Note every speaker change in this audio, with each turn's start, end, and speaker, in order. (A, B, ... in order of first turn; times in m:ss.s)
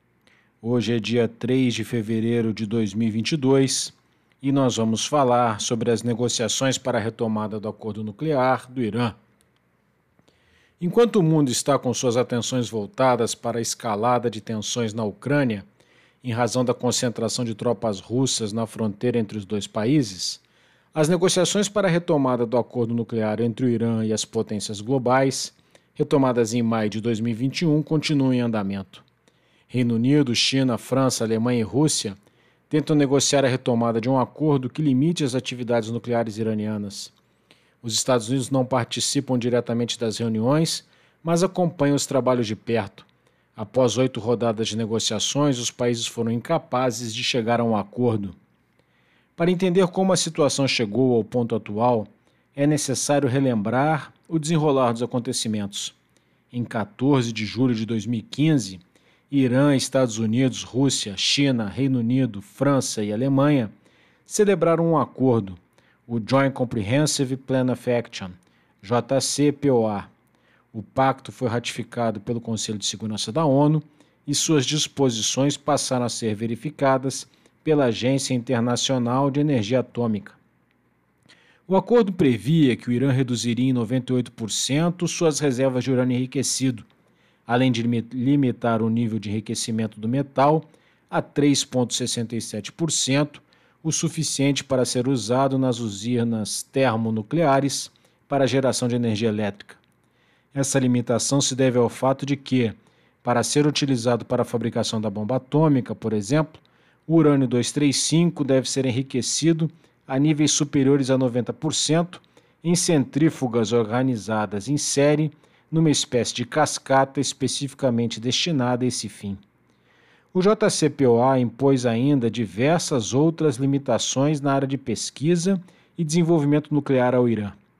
0:00.6-0:09.2 A
0:10.8-0:15.6 A
0:16.2-0:20.4 A
0:20.9-0:29.0 A
0:29.7-0:32.2 A
0:32.7-0:37.1 A
0:37.8-0:48.4 A
0:49.4-0:56.0 A
0:56.5-1:03.7 A
1:04.2-1:10.1 A
1:10.7-1:20.4 A
1:21.7-1:26.9 A
1:27.5-1:39.8 A
1:40.5-1:59.4 A
2:00.3-2:07.6 A